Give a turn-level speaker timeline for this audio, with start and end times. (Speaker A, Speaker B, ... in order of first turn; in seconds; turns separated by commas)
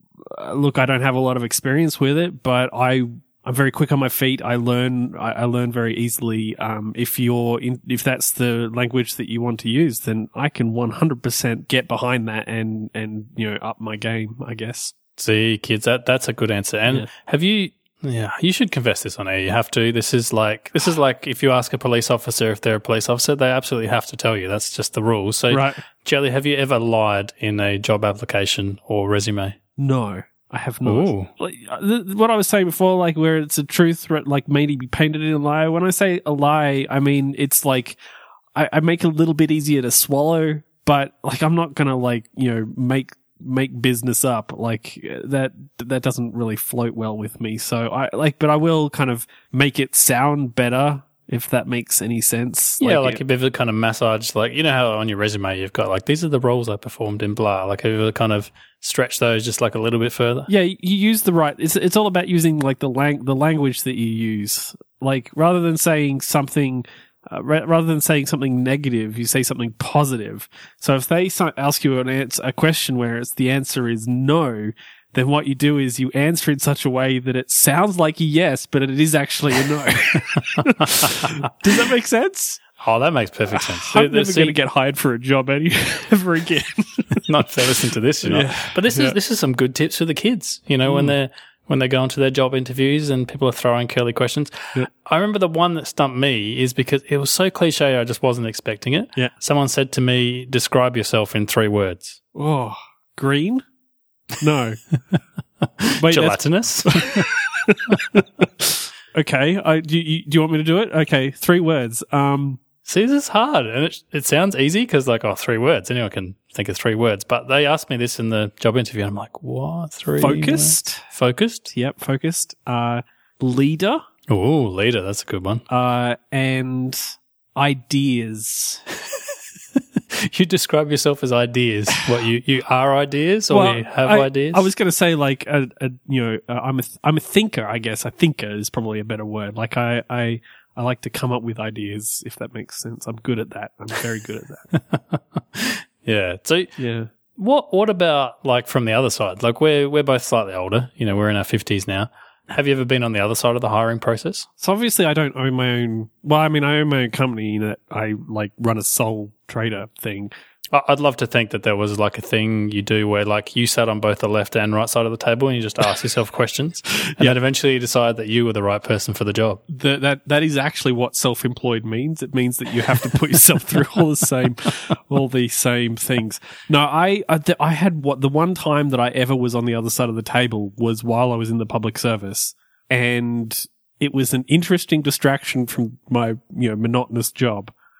Speaker A: 0.3-14.9, Speaker B: 15.2-29.6, Speaker A: 25.5-25.8, Speaker A: 29.8-38.0, Speaker B: 30.9-31.3, Speaker A: 38.6-53.2, Speaker B: 52.8-60.5, Speaker A: 60.5-82.6, Speaker B: 81.0-81.3, Speaker B: 82.8-84.6, Speaker A: 83.5-87.2, Speaker B: 87.2-102.2, Speaker A: 88.2-89.2, Speaker A: 90.8-91.2, Speaker A: 102.3-103.6, Speaker A: 104.4-104.8, Speaker B: 105.8-107.3, Speaker A: 106.0-112.6, Speaker B: 112.9-121.7, Speaker A: 120.2-121.1, Speaker A: 121.7-124.0, Speaker B: 124.3-125.6, Speaker A: 125.7-128.8, Speaker B: 130.2-134.7, Speaker A: 133.5-144.7, Speaker B: 144.7-146.7, Speaker A: 146.8-147.1, Speaker B: 147.4-154.5, Speaker A: 154.6-160.3, Speaker B: 160.7-169.6, Speaker A: 169.7-187.7